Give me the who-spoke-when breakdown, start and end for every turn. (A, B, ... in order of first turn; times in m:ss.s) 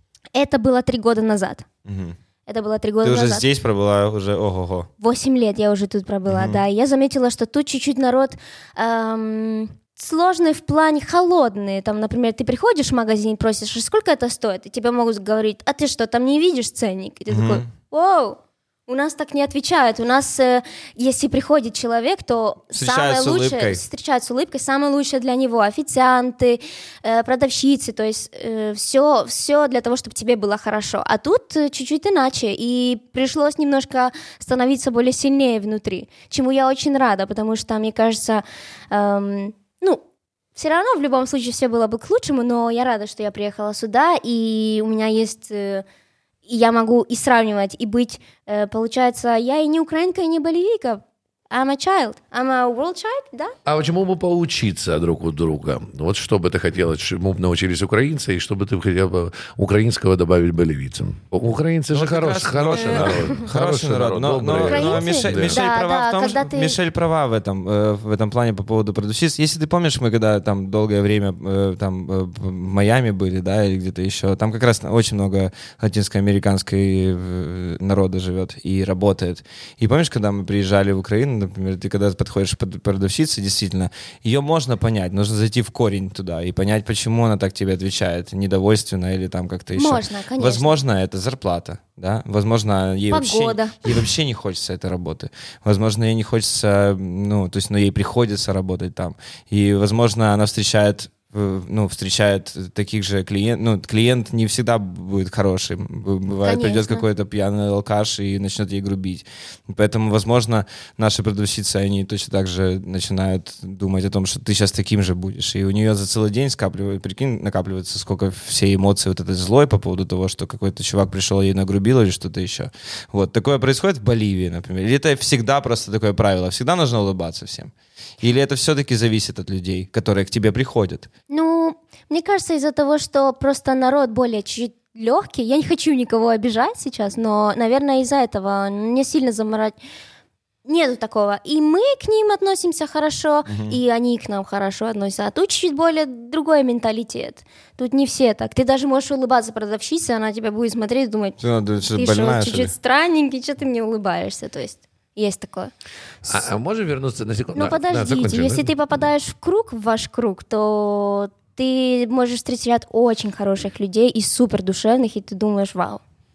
0:00.3-0:01.7 A
0:01.8-0:02.2 B
0:02.4-0:03.4 A
0:03.0-0:04.9 B
0:05.0-0:40.0 A
0:06.3-0:06.6 B
0:17.3-0:17.6 B
0:22.7-0:23.8 B
0:40.6-0:45.8 A
0:46.4-0:53.5 A
0:53.6-1:05.6 C
1:01.9-2:11.1 B
1:02.9-1:03.4 A
1:04.6-1:06.8 A
1:29.7-1:30.8 A
1:33.1-1:33.8 A
1:46.4-1:47.0 A
2:11.3-2:19.8 A
2:20.6-2:31.4 A
2:23.5-2:23.8 B
2:31.4-2:32.7 B
2:31.9-2:35.7 A
2:36.2-2:38.7 C
2:37.5-2:46.0 A